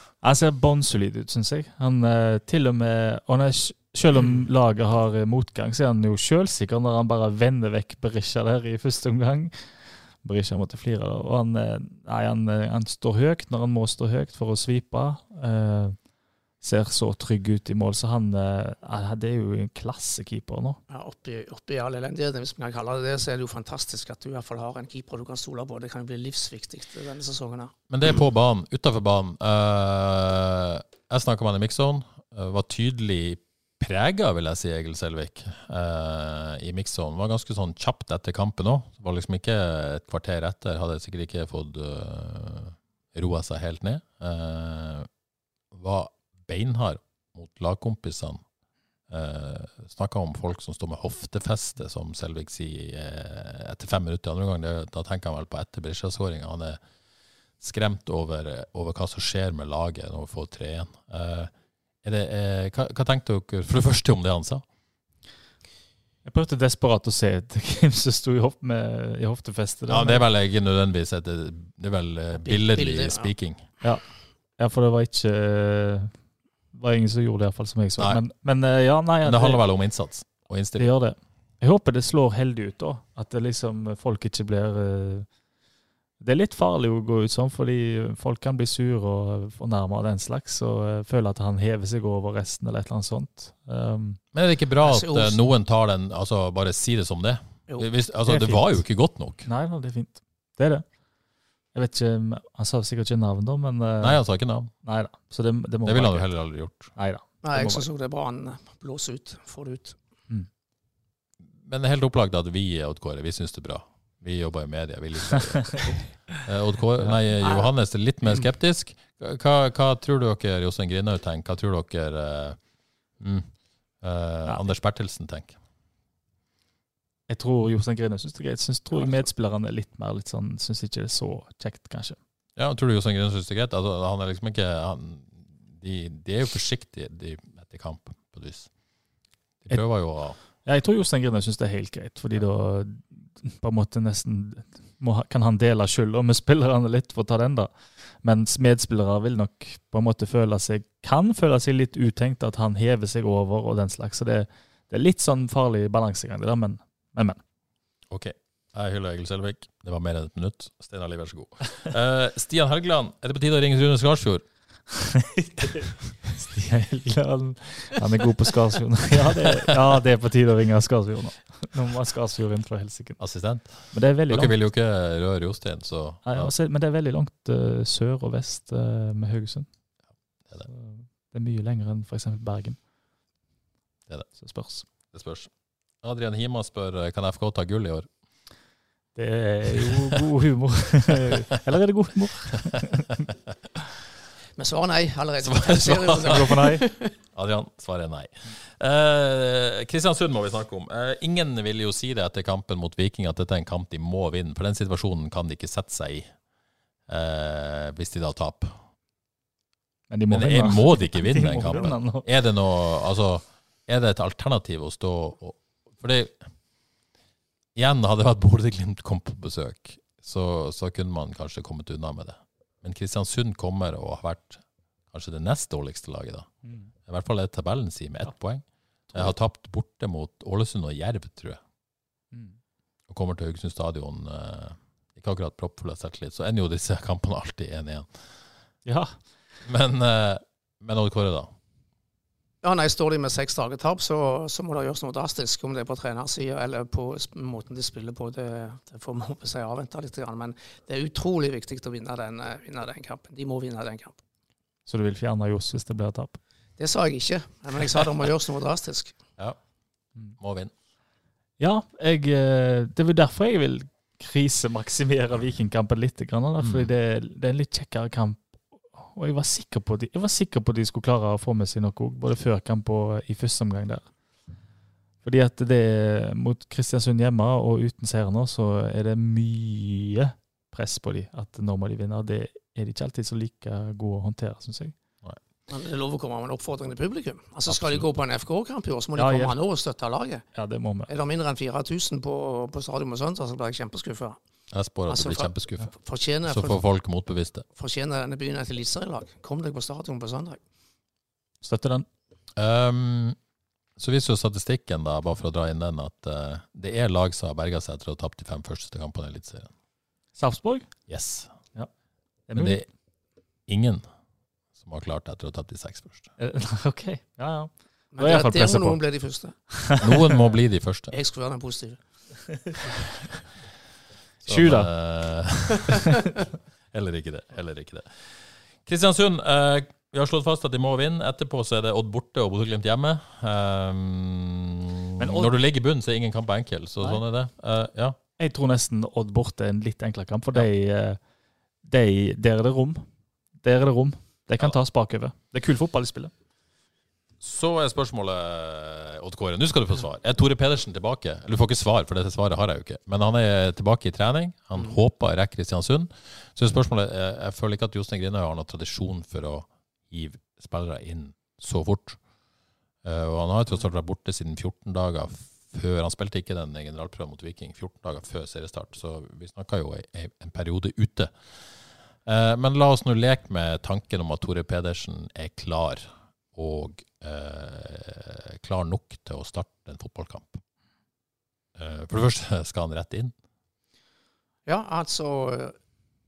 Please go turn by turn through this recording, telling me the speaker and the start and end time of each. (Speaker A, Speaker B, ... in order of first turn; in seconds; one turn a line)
Speaker A: 0.2-15.9
Speaker A: 16.6-20.8
Speaker B: 20.9-27.7
Speaker C: 27.9-45.1
Speaker C: 45.7-48.4
Speaker C: 49.1-56.8
Speaker C: 57.6-61.5
Speaker C: 62.0-64.6
Speaker A: 66.2-70.2
Speaker C: 69.9-73.6
Speaker B: 72.3-73.3
Speaker A: 74.6-76.1
Speaker A: 76.7-79.6
Speaker C: 79.2-81.0
Speaker A: 80.8-85.3
Speaker A: 86.2-94.2
Speaker C: 94.3-99.5
Speaker B: 94.8-95.4
Speaker A: 98.3-98.8
Speaker A: 99.4-100.8
Speaker A: 101.7-106.3
Speaker C: 104.0-104.7
Speaker C: 105.8-106.9
Speaker A: 106.9-107.8
Speaker B: 107.4-110.0
Speaker C: 111.6-122.6
Speaker B: 117.4-117.7
Speaker C: 123.2-125.5
Speaker A: 127.3-132.2
Speaker C: 132.6-138.7
Speaker C: 139.6-140.4
Speaker A: 140.5-157.4
Speaker C: 158.1-164.4
Speaker A: 165.1-173.2
Speaker C: 173.2-176.5
Speaker A: 173.8-174.5
Speaker A: 176.2-179.7
Speaker A: 180.7-182.8
Speaker A: 184.4-184.8
Speaker C: 184.8-185.5
Speaker C: 186.0-188.1
Speaker A: 189.1-193.1
Speaker B: 194.6-197.1
Speaker C: 195.4-196.6
Speaker A: 196.3-196.8
Speaker C: 197.3-206.3
Speaker C: 207.1-208.8
Speaker A: 210.1-212.2
Speaker C: 210.3-216.4
Speaker C: 217.7-226.5
Speaker A: 226.6-226.9
Speaker C: 227.1-231.6
Speaker C: 233.1-238.1
Speaker A: 238.8-239.1
Speaker C: 239.6-241.5
Speaker B: 242.6-254.2
Speaker A: 254.9-256.4
Speaker B: 256.8-259.2
Speaker C: 260.4-260.7
Speaker A: 261.6-274.1
Speaker C: 266.6-266.9
Speaker A: 275.2-284.9
Speaker B: 285.7-290.5
Speaker C: 287.7-288.1
Speaker A: 289.2-289.5
Speaker A: 290.5-291.1
Speaker B: 291.1-294.4
Speaker C: 294.7-295.9
Speaker B: 295.1-296.8
Speaker C: 296.5-297.7
Speaker B: 297.8-300.6
Speaker A: 301.6-302.1
Speaker C: 302.6-303.4
Speaker C: 304.0-309.7
Speaker A: 310.4-310.9
Speaker C: 311.1-311.5
Speaker A: 312.5-312.8
Speaker C: 312.5-312.9
Speaker C: 313.7-314.1
Speaker C: 314.7-316.3
Speaker A: 316.4-319.0
Speaker B: 318.1-319.8
Speaker A: 319.7-320.3
Speaker C: 320.0-321.1
Speaker B: 321.1-322.6
Speaker A: 324.4-324.9
Speaker C: 324.4-326.1
Speaker C: 326.9-338.2
Speaker A: 335.2-335.5
Speaker A: 338.4-341.2
Speaker A: 341.8-343.0
Speaker A: 343.6-346.3
Speaker C: 347.4-362.2
Speaker C: 363.0-371.7
Speaker C: 372.2-380.6
Speaker C: 381.8-383.3
Speaker B: 384.6-385.8